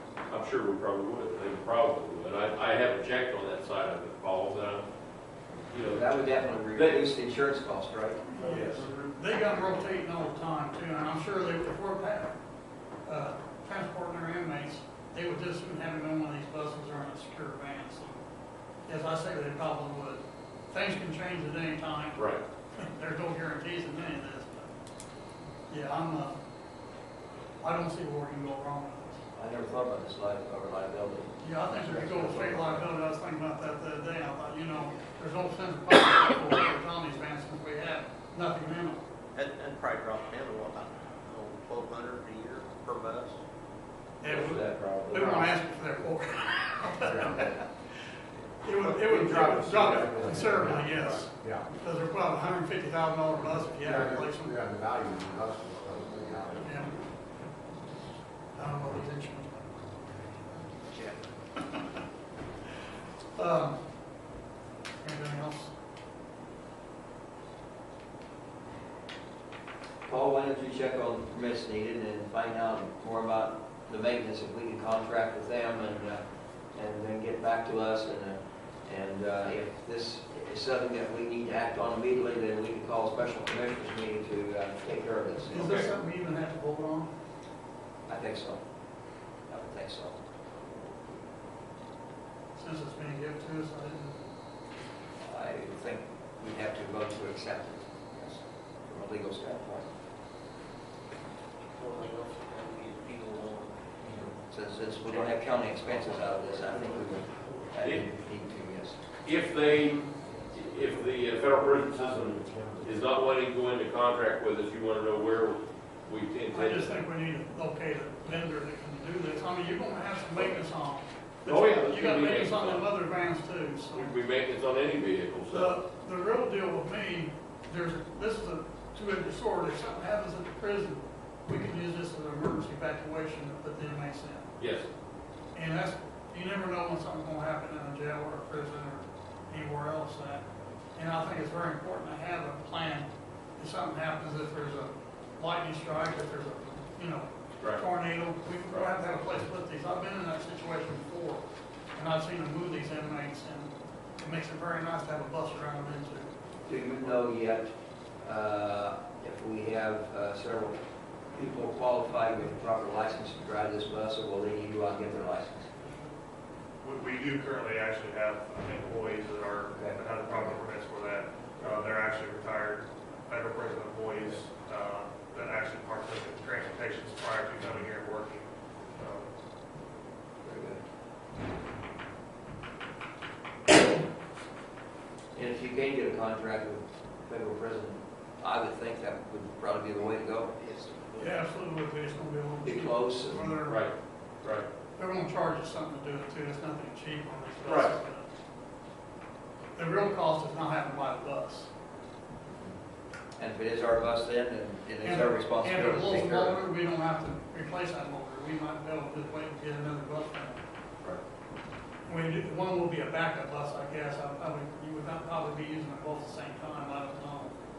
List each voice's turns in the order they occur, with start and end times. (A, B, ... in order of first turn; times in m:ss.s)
0:00.3-0:04.9 A
0:05.7-0:06.2 A
0:05.8-0:08.2 B
0:06.7-0:07.0 A
0:08.3-0:12.4 C
0:08.4-0:08.9 A
0:08.7-0:09.1 D
0:13.0-0:18.2 C
0:18.9-0:24.7 C
0:22.2-0:22.4 A
0:25.7-0:26.4 C
0:27.6-0:29.2 C
0:29.4-0:32.9 B
0:31.4-0:39.0 C
0:32.1-0:32.4 D
0:39.4-0:43.4 E
0:44.2-0:47.7 C
0:44.3-0:45.5 B
0:47.0-0:47.5 D
0:48.6-0:54.6 C
0:49.0-0:51.7 D
0:53.8-0:56.9 D
0:56.6-0:57.0 C
0:58.6-1:00.3 C
1:01.6-1:01.8 C
1:03.4-1:03.8 C
1:05.0-1:05.7 C
1:10.1-1:16.2 B
1:16.7-1:25.7 B
1:25.5-1:27.1 C
1:25.5-1:25.9 A
1:28.1-1:28.6 B
1:29.5-1:30.2 B
1:32.5-1:34.3 C
1:35.2-1:39.9 B
1:41.7-1:43.8 E
1:44.1-1:49.0 B
1:46.0-1:46.8 E
1:49.2-1:57.0 A
1:50.8-1:53.0 D
1:56.5-2:04.1 C
2:01.4-2:02.9 A
2:03.9-2:05.8 A
2:05.5-2:14.5 C
2:14.6-2:14.9 A
2:15.5-2:36.3 C
2:27.6-2:27.8 A
2:36.7-2:37.7 B
2:38.2-2:45.7 B
2:46.8-2:59.3 F
2:49.7-2:50.5 B
3:00.4-3:00.8 B
3:05.4-3:10.5 B
3:10.6-3:11.4 E
3:11.2-3:13.9 C
3:12.6-3:13.6 B
3:13.7-3:14.7 A
3:15.0-3:18.3 C
3:17.7-3:18.0 A
3:19.8-3:21.7 C
3:23.4-3:26.6 B
3:25.0-3:30.6 C
3:32.0-3:37.6 C